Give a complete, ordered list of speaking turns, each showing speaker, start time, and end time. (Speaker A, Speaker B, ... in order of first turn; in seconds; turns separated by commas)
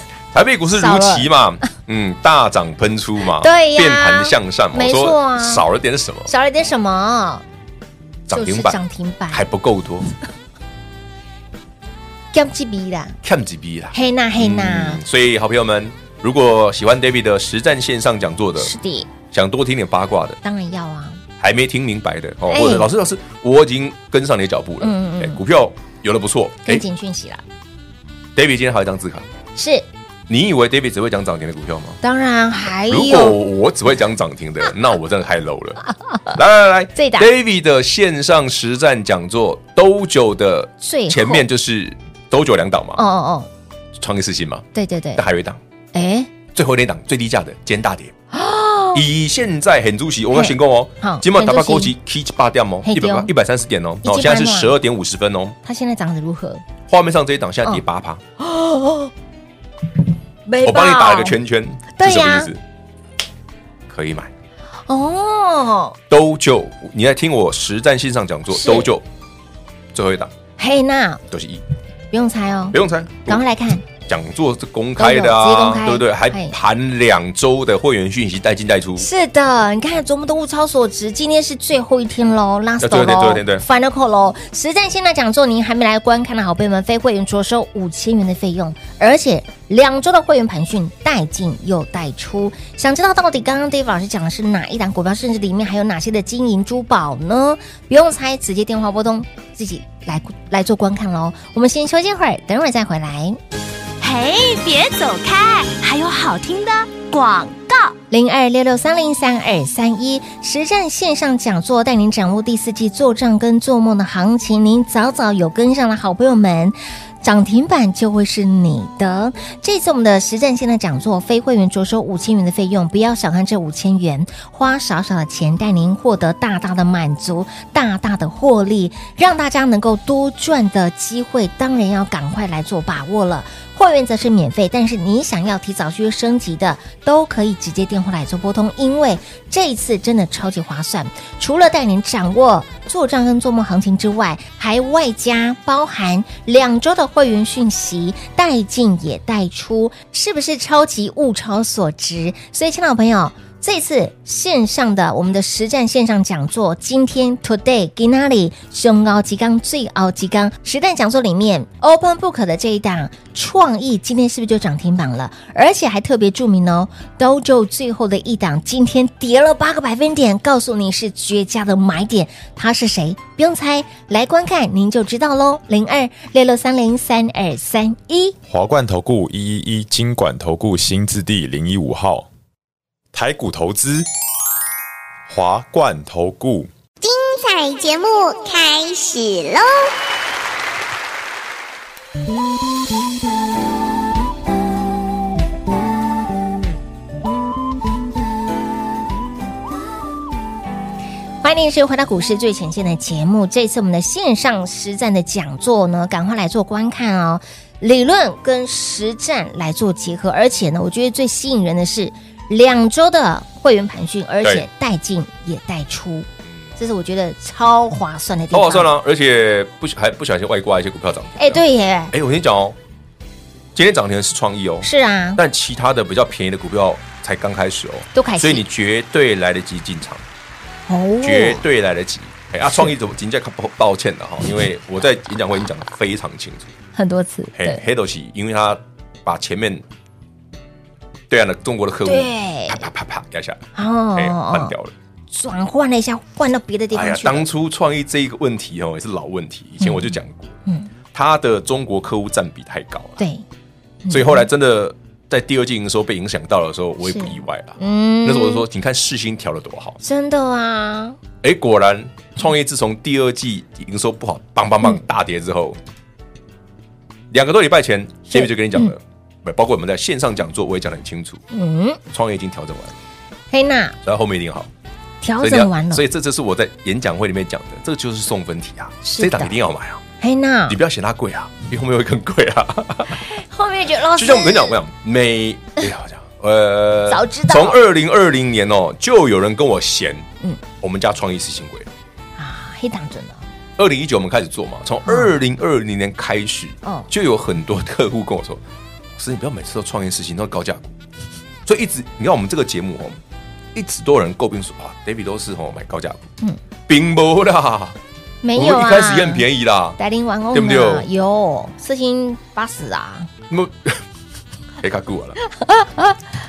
Speaker A: 0.3-6.3, Speaker B: 0.7-1.3, Speaker B: 3.3-5.6, Speaker B: 6.3-7.4, Speaker A: 8.3-8.8, Speaker B: 8.3-9.4, Speaker A: 9.3-10.1, Speaker B: 12.3-13.2, Speaker A: 13.2-18.7, Speaker B: 13.9-15.0, Speaker B: 18.6-19.1, Speaker A: 19.3-20.4, Speaker B: 20.4-21.2, Speaker A: 21.4-26.8, Speaker B: 22.5-22.9, Speaker B: 24.8-25.4, Speaker B: 26.6-27.4, Speaker A: 28.4-29.3, Speaker B: 29.6-29.9, Speaker A: 30.3-32.0, Speaker B: 32.0-33.4, Speaker A: 32.8-43.0, Speaker B: 37.0-37.3, Speaker B: 40.8-41.5, Speaker B: 43.0-43.5, Speaker A: 44.0-45.6, Speaker B: 44.7-45.2, Speaker B: 45.9-46.3, Speaker A: 46.5-48.1, Speaker B: 48.3-49.0, Speaker A: 48.9-55.6, Speaker B: 50.3-51.9, Speaker B: 52.8-53.3, Speaker B: 54.0-54.8, Speaker B: 55.6-56.6, Speaker A: 56.9-58.2, Speaker B: 58.4-59.1, Speaker B: 60.5-61.4, Speaker A: 60.6-62.6, Speaker B: 61.9-62.5, Speaker A: 63.9-64.3, Speaker B: 64.9-66.0, Speaker A: 66.1-69.0, Speaker B: 68.5-68.9, Speaker A: 69.9-70.3, Speaker B: 70.6-71.2, Speaker A: 71.3-71.6, Speaker B: 72.1-73.9, Speaker A: 72.7-73.4, Speaker A: 73.9-79.1, Speaker B: 75.0-76.5, Speaker B: 79.0-103.4, Speaker A: 82.8-83.6, Speaker C: 104.0-107.9, Speaker B: 108.1-178.3, Speaker D: 178.5-182.3, Speaker D: 183.1-184.1, Speaker D: 185.3-186.7, Speaker E: 187.0-189.9, Speaker B: 201.4-218.9, Speaker A: 218.5-222.8, Speaker B: 221.4-222.1, Speaker A: 223.7-230.2, Speaker B: 224.8-225.4, Speaker B: 228.1-228.6, Speaker B: 230.9-231.6, Speaker A: 231.2-236.7, Speaker B: 236.9-237.8, Speaker A: 237.5-239.8, Speaker A: 241.3-244.9, Speaker B: 242.0-242.9, Speaker B: 243.7-244.7, Speaker B: 245.3-247.5, Speaker A: 246.9-250.6, Speaker B: 249.8-250.1, Speaker B: 250.7-250.9, Speaker A: 251.1-253.2, Speaker B: 253.2-253.4, Speaker B: 254.0-254.4, Speaker A: 254.1-260.0, Speaker B: 257.0-258.6, Speaker B: 260.0-261.2, Speaker A: 261.4-265.8, Speaker A: 267.3-271.4, Speaker B: 268.3-268.9, Speaker B: 271.5-272.0, Speaker A: 272.1-272.9, Speaker B: 273.5-273.9, Speaker A: 274.0-274.7, Speaker B: 275.2-276.0, Speaker A: 275.4-280.0, Speaker B: 279.0-279.6, Speaker B: 280.2-280.8, Speaker A: 280.7-283.2, Speaker B: 283.1-284.8, Speaker A: 284.1-290.3, Speaker B: 287.1-287.8, Speaker A: 290.8-291.9, Speaker B: 292.4-293.4, Speaker A: 293.8-298.6, Speaker B: 295.1-295.3, Speaker B: 296.8-297.1, Speaker A: 299.1-300.9, Speaker A: 301.6-303.2, Speaker A: 303.7-306.3, Speaker A: 306.9-308.0, Speaker B: 308.4-309.4, Speaker A: 308.5-310.0, Speaker B: 310.0-313.3, Speaker A: 310.5-311.1, Speaker A: 313.5-314.0, Speaker A: 314.8-315.4, Speaker B: 315.5-316.2